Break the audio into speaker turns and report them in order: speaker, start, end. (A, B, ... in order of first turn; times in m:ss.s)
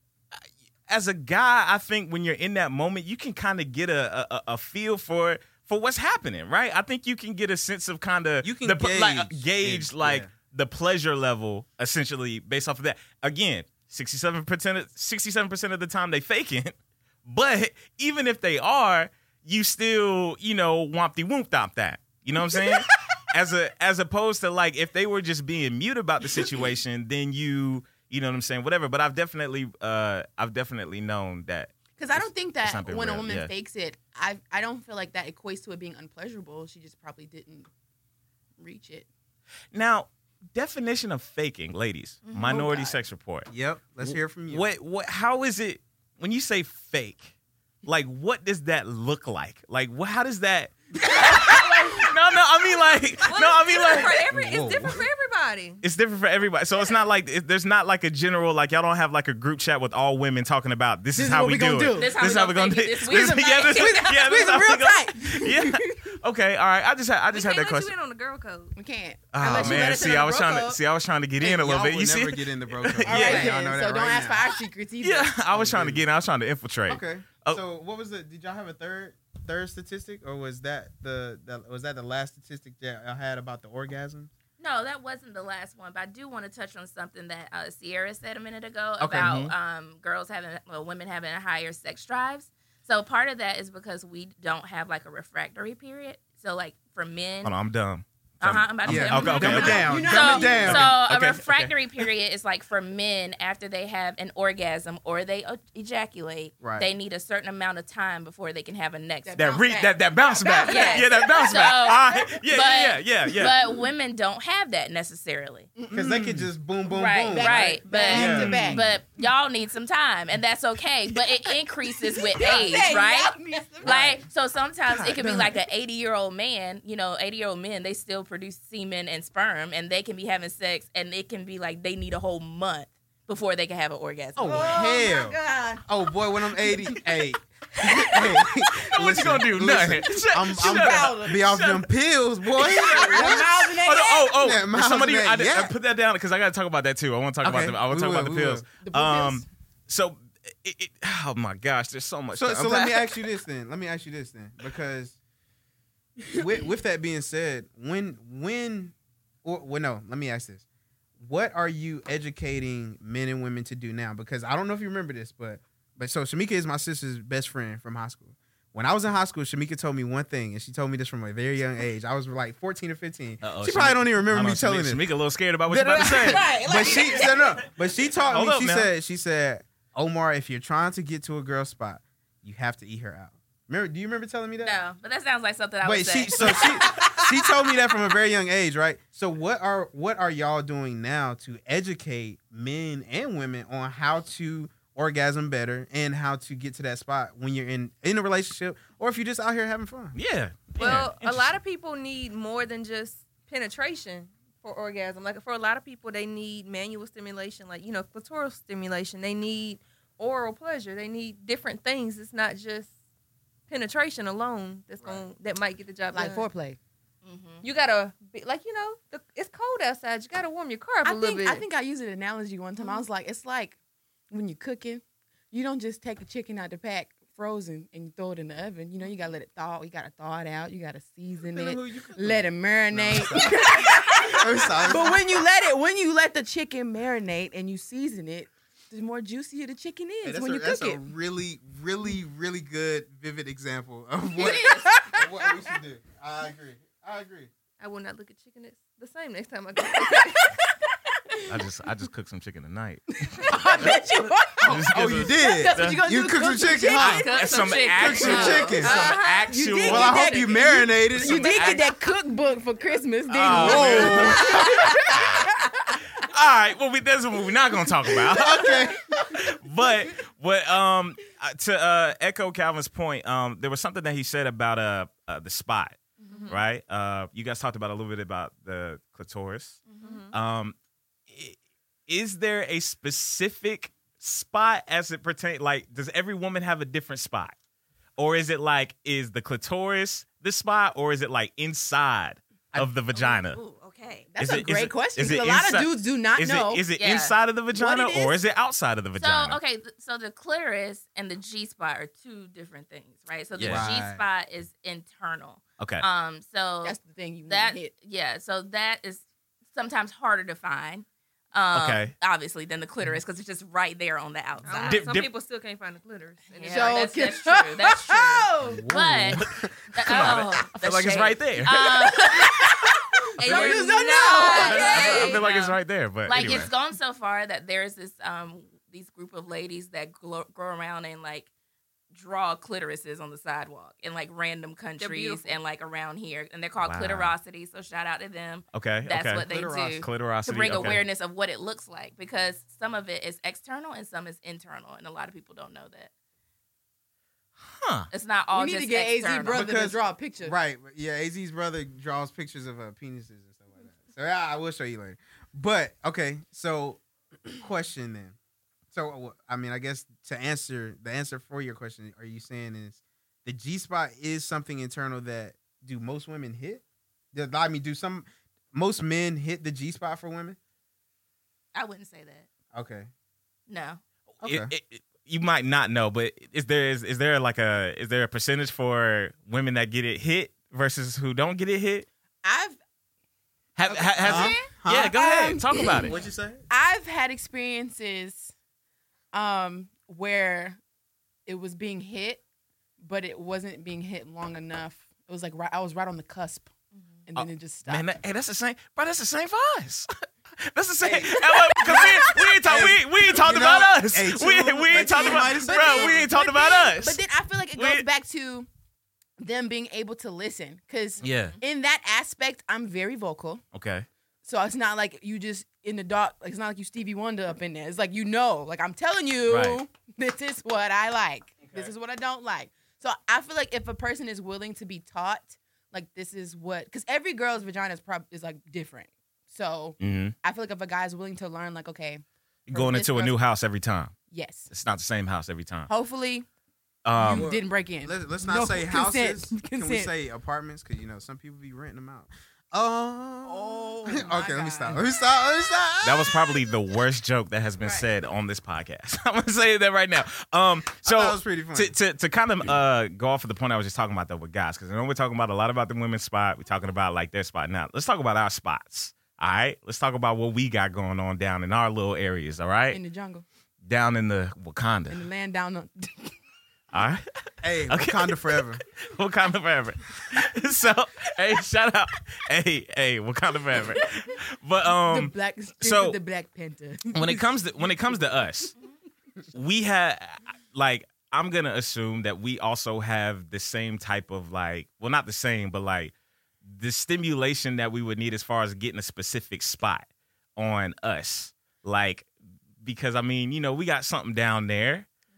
0:00.3-0:33.5 A
0:08.4-0:10.3 B
0:32.0-0:37.7 C
0:38.6-0:39.1 C
0:39.7-0:43.5 A
0:42.2-0:42.7 D
0:42.4-0:43.0 C
0:43.5-0:44.6 B
0:44.0-0:47.3 A
0:47.8-0:54.2 A
0:51.2-0:51.6 C
0:53.2-0:55.8 E
0:54.3-0:55.0 B
0:55.8-1:07.9 A
1:01.1-1:02.3 C
1:01.9-1:04.0 D
1:03.1-1:06.2 C
1:07.3-1:08.7 E
1:08.8-1:10.8 C
1:09.3-1:13.5 A
1:09.4-1:09.9 B
1:11.4-1:14.4 B
1:13.0-1:15.3 C
1:13.1-1:13.6 D
1:15.0-1:17.6 A
1:15.5-1:16.0 B
1:16.9-1:24.3 B
1:24.6-1:37.6 D
1:29.0-1:29.5 B
1:29.2-1:29.5 A
1:37.4-1:42.1 A
1:38.4-1:49.4 D
1:38.8-1:41.0 B
1:39.3-1:40.9 C
1:46.6-1:46.9 B
1:49.2-1:52.4 C
1:49.4-1:53.5 A
1:50.6-1:55.7 D
1:53.4-1:53.8 C
1:55.8-1:56.0 C
1:55.9-1:58.7 B
1:55.9-1:56.5 A
1:56.8-2:14.7 D
1:57.3-1:58.9 C
1:58.1-1:58.9 A
2:01.2-2:04.2 C
2:03.8-2:04.2 B
2:05.2-2:05.6 C
2:14.4-2:23.5 B
2:14.4-2:15.8 C
2:16.6-2:16.9 C
2:17.8-2:21.9 A
2:20.5-2:21.4 C
2:22.5-2:33.2 A
2:22.6-2:24.4 C
2:24.3-2:25.7 B
2:27.4-2:28.7 B
2:28.8-2:29.5 C
2:32.3-2:35.2 B
2:36.3-2:40.6 B
2:41.2-2:55.0 B
2:53.4-2:56.5 A
2:55.7-3:04.8 B
2:55.9-2:57.6 C
2:58.3-2:58.9 A
3:04.6-3:07.0 D
3:05.8-3:20.1 B
3:06.9-3:07.2 C
3:20.1-3:21.5 A
3:20.8-3:32.9 E
3:33.7-3:36.5 E
3:35.0-3:35.3 B
3:36.1-3:36.8 C
3:37.2-3:37.6 D
3:37.6-3:41.6 E
3:41.0-3:43.8 C
3:44.3-4:01.0 C
3:51.5-3:53.6 B
3:54.2-3:55.4 B
4:00.2-4:07.5 B
4:04.3-4:05.0 D
4:04.8-4:05.5 C
4:07.8-4:10.5 E
4:09.9-4:10.7 C
4:11.4-4:16.0 A
4:13.2-4:17.3 C
4:14.8-4:17.3 B
4:17.0-4:19.1 D
4:17.0-4:20.5 A
4:17.4-4:19.5 E
4:18.0-4:19.2 B
4:19.4-4:26.1 C
4:19.8-4:21.8 B
4:21.1-4:21.9 A
4:23.3-4:25.4 A
4:23.4-4:24.9 B
4:26.1-4:39.8 A
4:28.0-4:28.9 C
4:28.2-4:29.4 B
4:36.2-4:36.6 D
4:36.3-4:36.6 E
4:39.8-4:40.3 D
4:40.0-4:40.3 E
4:40.3-4:40.7 A
4:41.3-4:47.5 A
4:48.2-4:53.6 A
4:53.1-4:54.3 D
4:54.3-4:56.8 C
4:54.4-4:59.6 A
4:57.0-4:57.4 D
4:57.7-4:58.4 C
4:59.2-5:07.0 D
5:03.6-5:03.9 A
5:03.6-5:04.2 B
5:05.8-5:06.0 A
5:06.8-5:07.9 C
5:07.5-5:15.1 D
5:11.7-5:12.1 A
5:14.6-5:17.1 E
5:14.8-5:15.3 A
5:16.5-5:22.8 D
5:16.7-5:18.8 C
5:18.7-5:22.2 A
5:19.4-5:19.6 B
5:22.4-5:25.3 C
5:23.4-5:25.5 E
5:23.4-5:23.8 A
5:24.4-5:31.5 D
5:24.6-5:26.7 A
5:32.1-5:46.1 D
5:35.0-5:35.6 E
5:36.8-5:37.3 A
5:38.7-5:41.0 A
5:39.5-5:40.0 B
5:47.7-5:48.1 A
5:48.1-5:49.6 D
5:48.5-5:50.6 C
5:49.5-5:58.4 B
5:58.9-6:10.6 B
6:11.7-6:12.5 D
6:12.7-6:13.1 B
6:13.7-6:14.0 D
6:14.4-6:22.1 A
6:14.4-6:14.7 B
6:22.4-6:22.8 C
6:23.8-6:26.2 A
6:23.9-6:26.1 C
6:24.2-6:25.1 B
6:26.0-6:26.6 B
6:26.7-6:28.5 C
6:29.3-6:30.8 C
6:31.4-6:32.4 C
6:33.0-6:36.7 C
6:36.9-6:37.2 D
6:37.3-6:38.1 C
6:37.4-6:48.0 A
6:41.0-6:42.8 C
6:42.6-6:46.2 B
6:45.0-6:48.7 C
6:49.4-6:53.6 C
6:51.2-6:51.6 A
6:53.7-6:54.1 A
6:54.4-7:13.4 C
6:59.5-6:59.8 A
7:10.0-7:10.3 A
7:12.7-7:14.1 A
7:14.3-7:14.7 C
7:14.7-7:15.9 A
7:15.9-7:16.5 C
7:17.0-7:17.5 A
7:17.1-7:20.1 C
7:17.3-7:26.5 B
7:23.4-7:25.1 C
7:26.0-7:43.0 A
7:27.8-7:28.1 C
7:31.0-7:31.9 B
7:42.9-7:43.4 C
7:43.8-7:45.2 A
7:45.1-7:46.3 C
7:46.9-7:56.2 A
7:47.6-7:48.8 B
7:55.0-7:58.2 C
7:57.1-7:58.7 A
7:59.5-8:06.1 A
8:06.6-8:12.3 A
8:12.8-8:15.1 A